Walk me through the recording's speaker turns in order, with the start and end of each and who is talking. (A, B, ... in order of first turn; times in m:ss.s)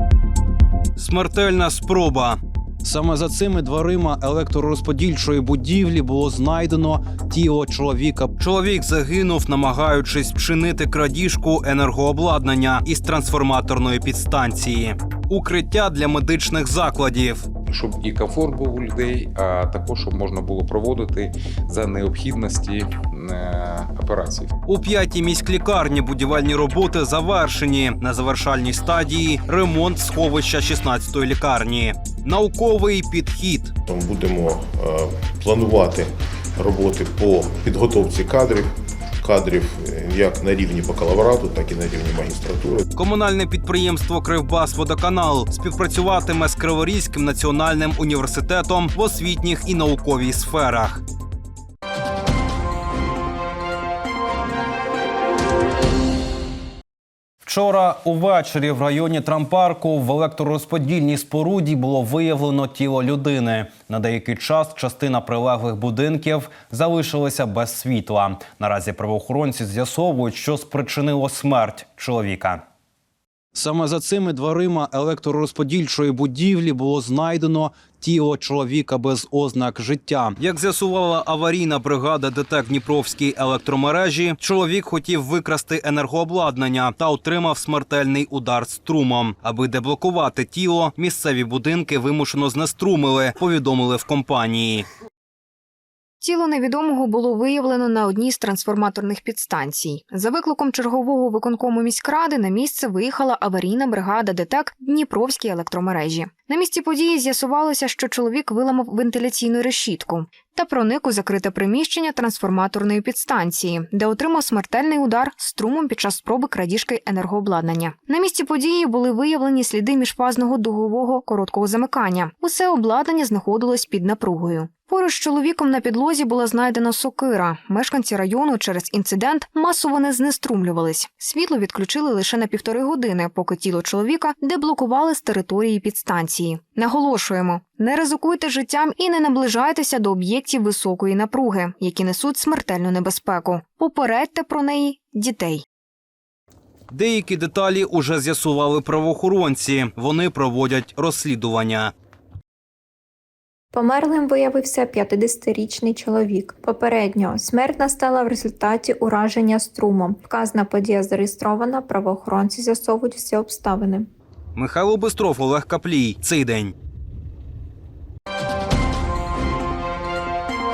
0:01.0-0:17.5 A
0:17.7-0:24.5 B
0:24.7-0:33.7 A
0:33.9-0:38.7 C
0:39.2-0:42.8 C
0:43.0-0:51.0 A
0:57.4-1:12.6 A
1:13.5-1:34.9 A
1:36.2-2:25.6 D
2:26.9-2:31.9 A
2:33.7-2:44.1 E
2:44.6-2:46.7 A